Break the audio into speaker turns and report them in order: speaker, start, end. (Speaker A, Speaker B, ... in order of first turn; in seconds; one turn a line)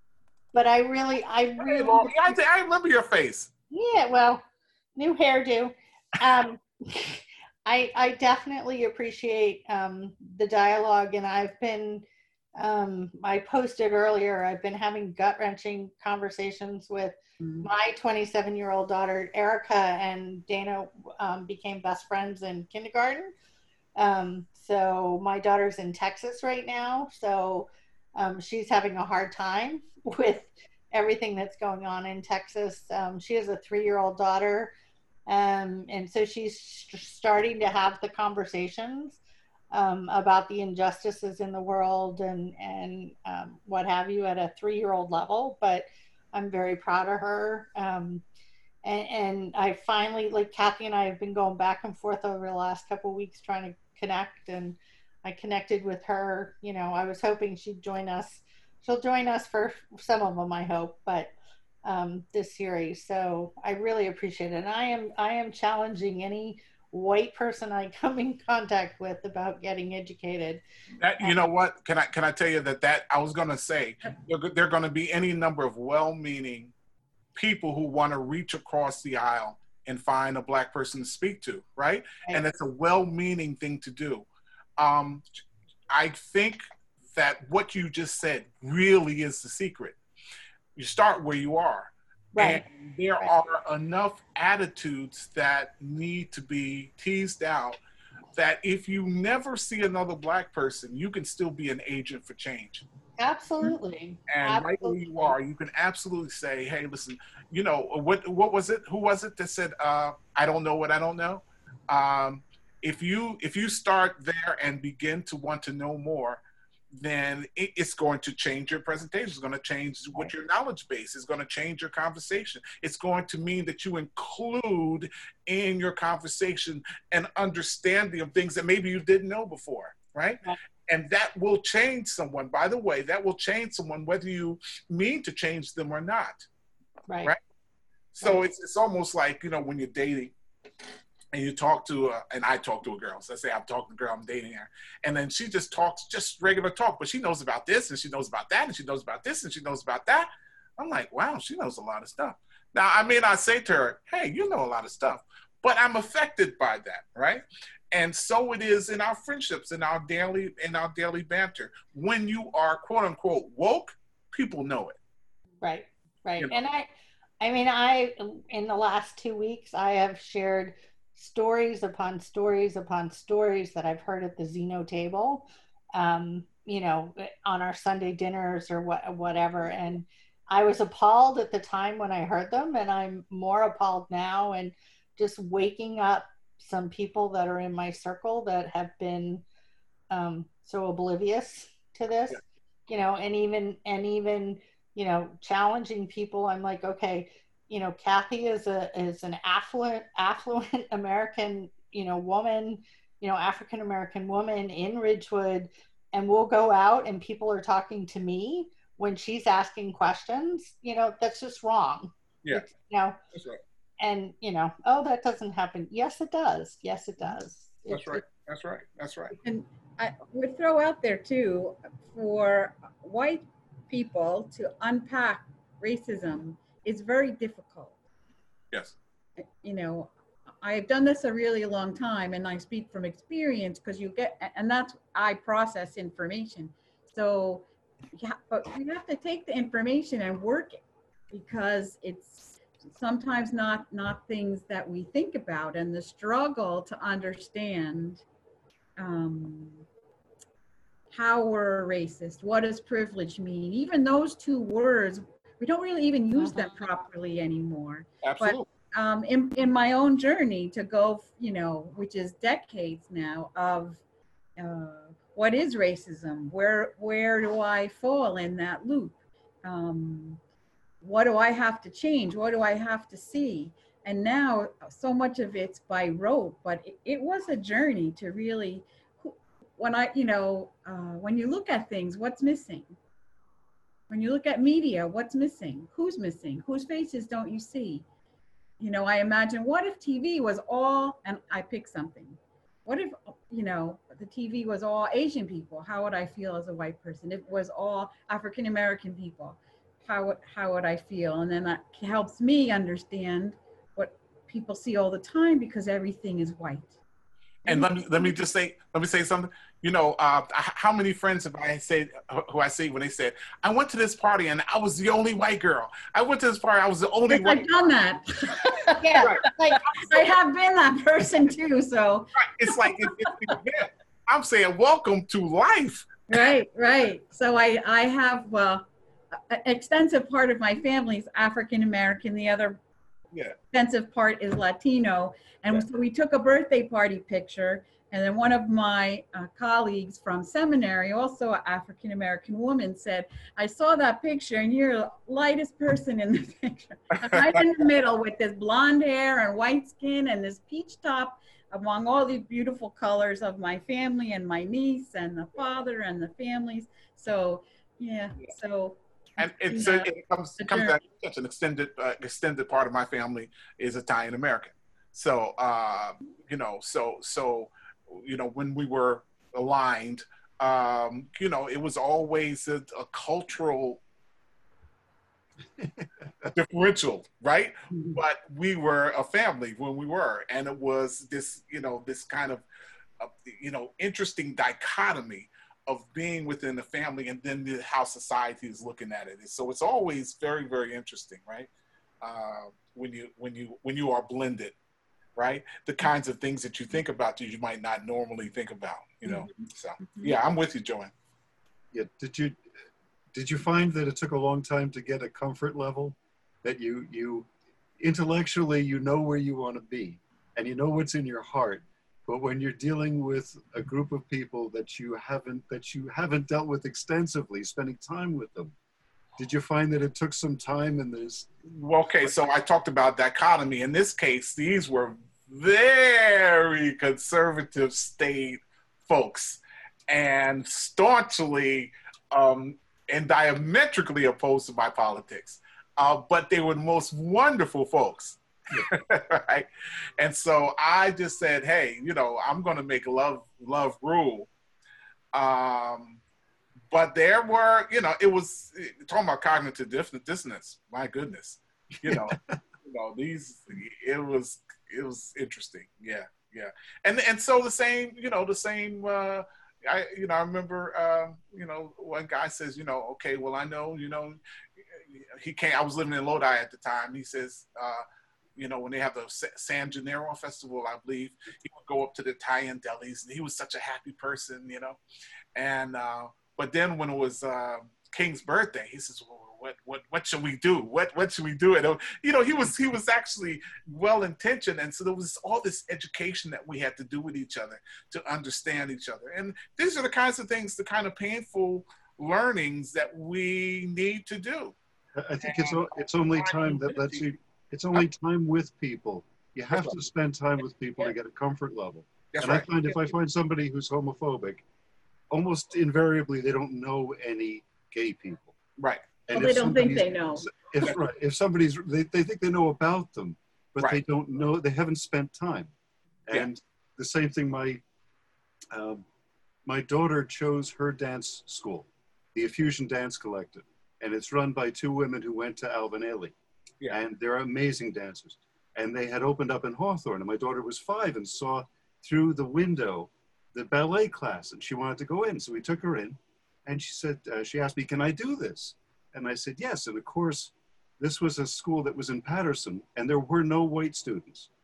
Speaker A: 0.5-2.4
Speaker B: 1.6-3.5
Speaker A: 3.7-4.4
Speaker A: 5.0-12.0
Speaker A: 12.6-23.3
Speaker A: 23.9-34.7
Speaker A: 35.3-39.2
Speaker A: 39.7-48.2
Speaker A: 48.8-61.3
Speaker A: 61.8-70.6
Speaker B: 71.0-76.7
Speaker B: 77.3-85.2
Speaker B: 85.9-90.0
Speaker B: 90.8-97.8
Speaker A: 92.3-92.6
Speaker B: 98.3-102.8
Speaker A: 103.2-105.3
Speaker B: 104.3-136.5
Speaker A: 137.1-137.3
Speaker B: 138.1-140.3
Speaker B: 141.3-165.0
Speaker A: 165.6-166.9
Speaker A: 167.4-189.4
Speaker A: 190.1-213.2
Speaker B: 213.3-213.6
Speaker A: 214.0-218.2
Speaker B: 217.9-219.3
Speaker C: 219.4-227.9
Speaker C: 229.4-240.8
Speaker C: 241.3-248.2
Speaker C: 249.0-249.8
Speaker C: 251.1-264.0
Speaker B: 258.2-258.7
Speaker C: 264.6-270.4
Speaker C: 271.0-282.9
Speaker C: 284.1-288.0
Speaker C: 288.8-307.0
Speaker B: 307.6-317.7
Speaker C: 307.7-308.3
Speaker C: 317.3-323.6
Speaker A: 318.9-319.9
Speaker B: 319.2-320.3
Speaker B: 322.4-326.4
Speaker C: 326.3-332.8
Speaker C: 333.7-361.0
Speaker B: 359.4-374.0
Speaker D: 375.8-376.5
Speaker B: 376.5-382.6
Speaker B: 383.2-391.7
Speaker B: 392.2-394.8
Speaker B: 395.4-401.1
Speaker D: 401.9-402.6
Speaker D: 403.3-418.7
Speaker D: 419.4-421.5
Speaker B: 421.6-444.5
Speaker B: 445.3-446.2
Speaker B: 446.9-464.4
Speaker D: 452.0-452.6
Speaker B: 464.9-468.0
Speaker B: 468.6-475.0
Speaker B: 475.5-494.8
Speaker D: 495.2-504.6
Speaker B: 495.4-497.3
Speaker B: 502.3-503.1
Speaker D: 505.3-508.6
Speaker B: 508.8-509.2
Speaker D: 509.3-515.7
Speaker C: 509.3-510.4
Speaker D: 516.3-517.8
Speaker D: 518.7-519.0
Speaker D: 519.6-526.3
Speaker D: 526.9-544.5